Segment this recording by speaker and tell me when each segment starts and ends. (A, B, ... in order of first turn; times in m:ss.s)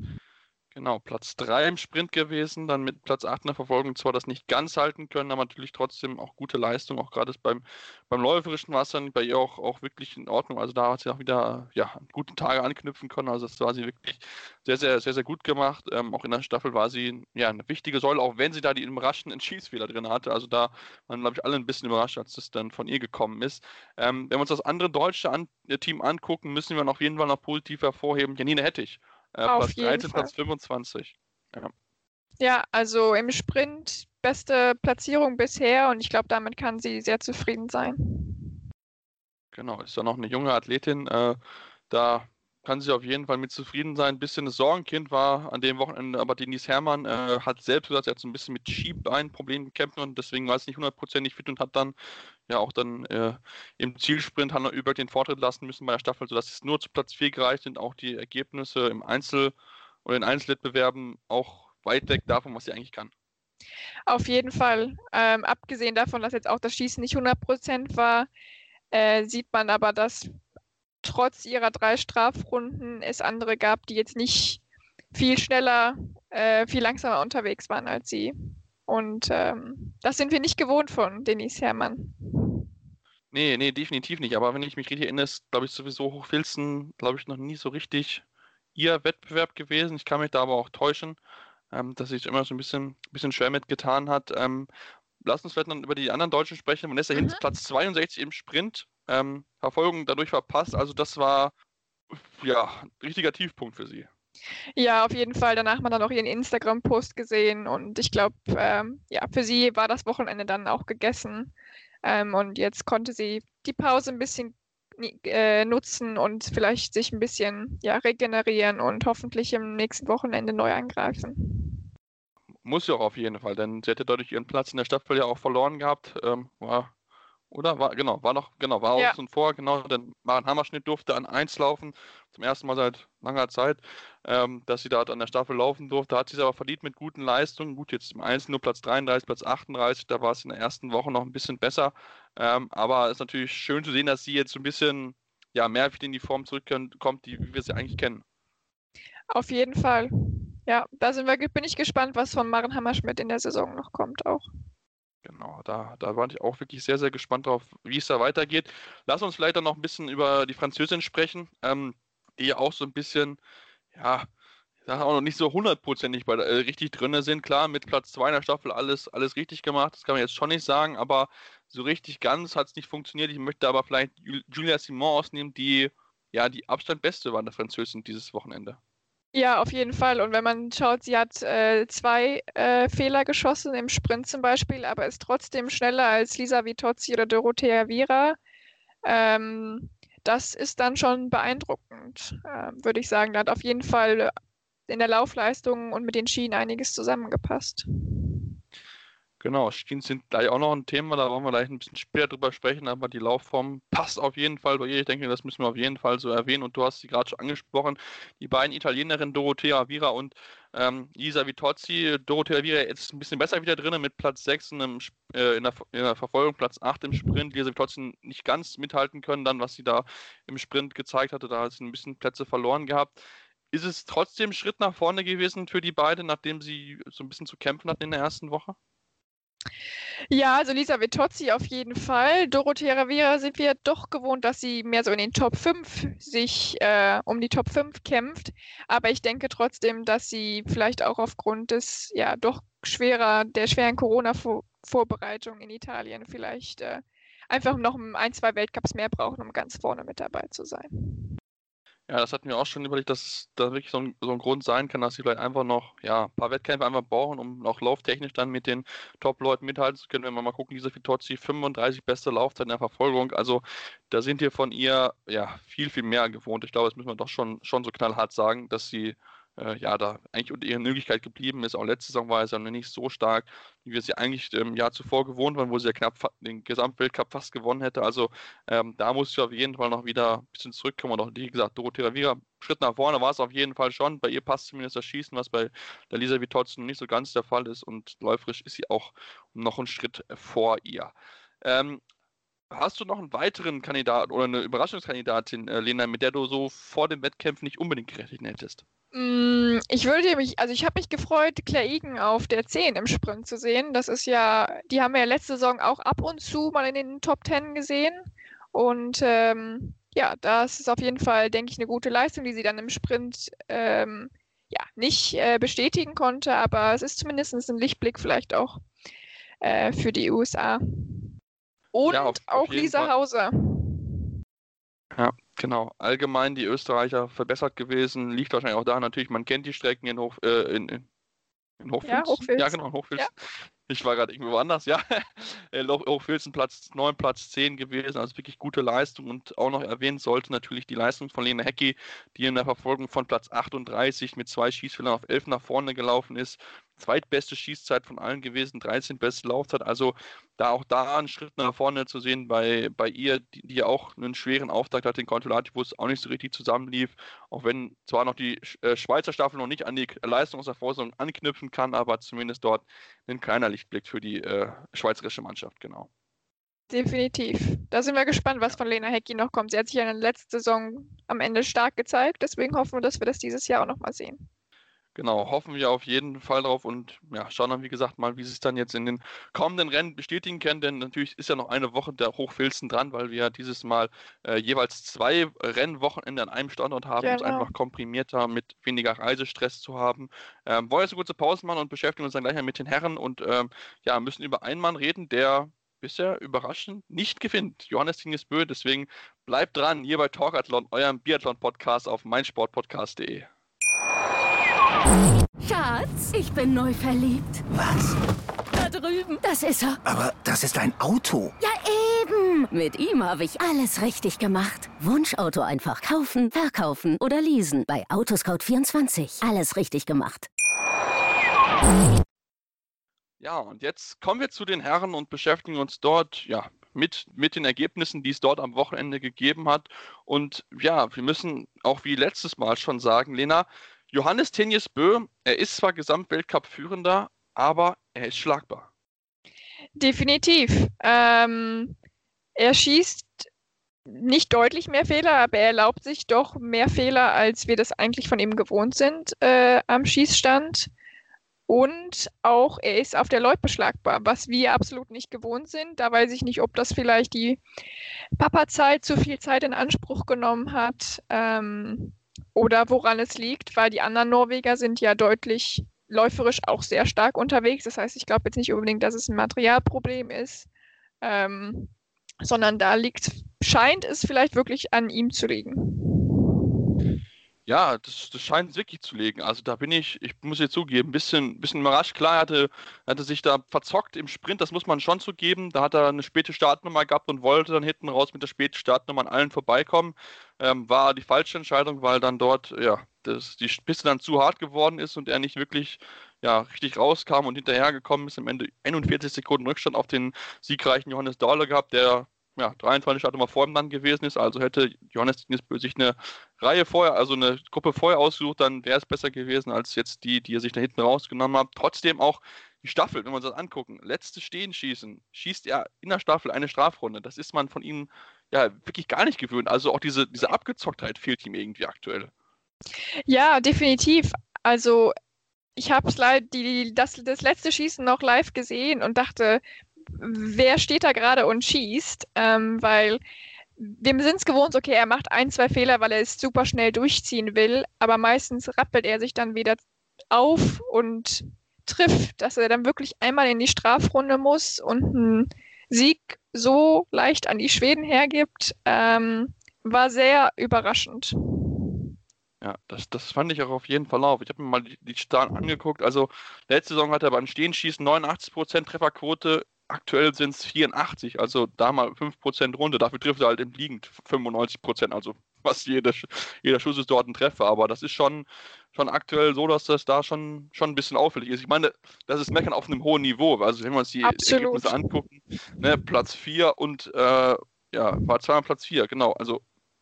0:00.7-0:31.7 A
0:29.5-0:30.3 B
0:32.4-0:38.5 B
0:39.5-0:41.4 A
0:41.9-0:51.9 A
0:52.5-0:59.5 A
1:00.0-1:03.1 A
1:04.1-1:08.3 B
1:08.9-1:10.3 B
1:11.0-1:14.6 B
1:15.1-1:18.3 B
1:18.8-1:22.6 B
1:23.3-1:28.2 A
1:28.7-1:31.2 A
1:31.7-1:34.7 A
1:35.2-1:41.5 A
1:37.1-1:37.4 B
1:42.1-1:44.1 A
1:44.8-1:51.5 B
1:52.0-2:01.8 B
2:02.6-2:06.9 A
2:07.5-2:28.2 A
2:29.3-2:34.4 B
2:35.2-2:43.4 A
2:43.9-2:44.3 A
2:44.8-2:58.8 A
2:59.3-3:08.4 B
3:09.0-3:14.3 B
3:14.9-3:17.8 B
3:19.4-3:43.2 A
3:43.7-3:48.8 A
3:50.3-4:11.2 B
4:12.1-4:52.0 A
4:52.7-4:58.8 A
4:59.1-5:18.8 B
5:19.6-5:21.2 B
5:21.9-5:24.1 B
5:22.1-5:23.1 A
5:25.1-5:31.0 A
5:31.8-5:33.3 A
5:32.0-5:33.3 B
5:33.9-6:06.1 A
6:06.9-6:14.5 B
6:15.1-6:43.5 A
6:27.2-6:27.7 B
6:45.6-6:47.6 C
6:47.7-6:48.2 D
6:48.7-6:50.0 C
6:50.0-6:51.5 D
6:51.6-7:00.5 C
7:03.4-7:18.9 A
7:20.0-7:22.0 B
7:22.6-7:23.5 B
7:24.1-7:30.9 B
7:31.7-7:37.6 B
7:38.4-7:50.7 B
7:51.2-7:51.9 B
7:52.4-7:56.4 B
7:57.6-8:42.3 A
8:43.3-8:45.1 B
8:45.8-8:53.2 B
8:53.8-8:59.8 B
9:00.3-9:11.7 B
9:12.6-9:39.6 A
9:34.2-9:35.2 B